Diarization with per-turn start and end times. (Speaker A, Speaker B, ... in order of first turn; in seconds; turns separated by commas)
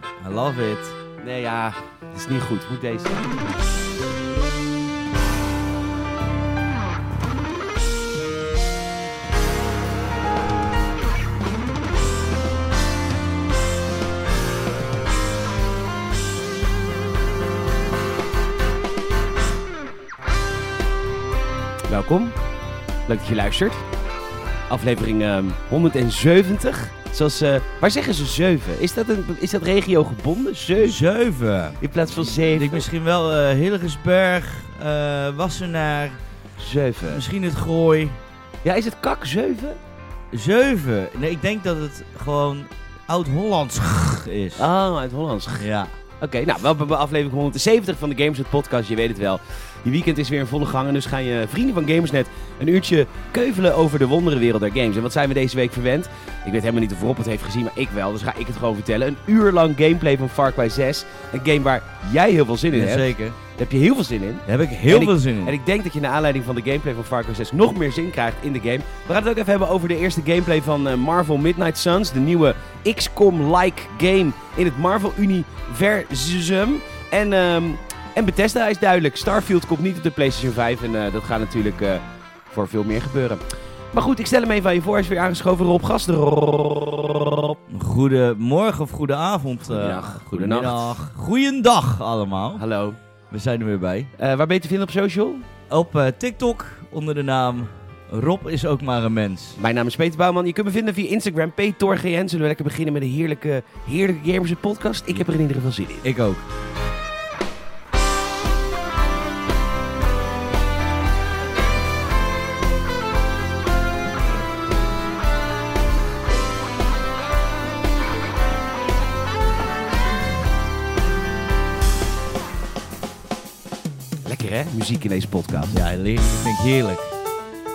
Speaker A: 0.2-1.0, Speaker B: 1.2-3.5, Speaker B: 21.9-22.4, Speaker B: 23.1-23.8, Speaker B: 24.7-31.0, Speaker A: 30.8-36.2, Speaker B: 31.8-32.9, Speaker B: 36.6-37.2, Speaker A: 37.1-38.2, Speaker B: 38.6-39.8, Speaker A: 40.3-44.7, Speaker B: 44.6-45.7, Speaker A: 45.6-46.0, Speaker B: 46.2-83.4, Speaker A: 62.7-63.4, Speaker A: 64.5-65.6, Speaker B: 83.9-87.6, Speaker A: 87.7-92.6, Speaker B: 89.7-91.0, Speaker B: 92.6-93.0, Speaker A: 93.3-94.1, Speaker B: 94.2-95.5, Speaker A: 95.7-99.6, Speaker B: 99.6-106.1, Speaker A: 106.0-106.4, Speaker B: 124.2-125.8, Speaker A: 125.7-127.2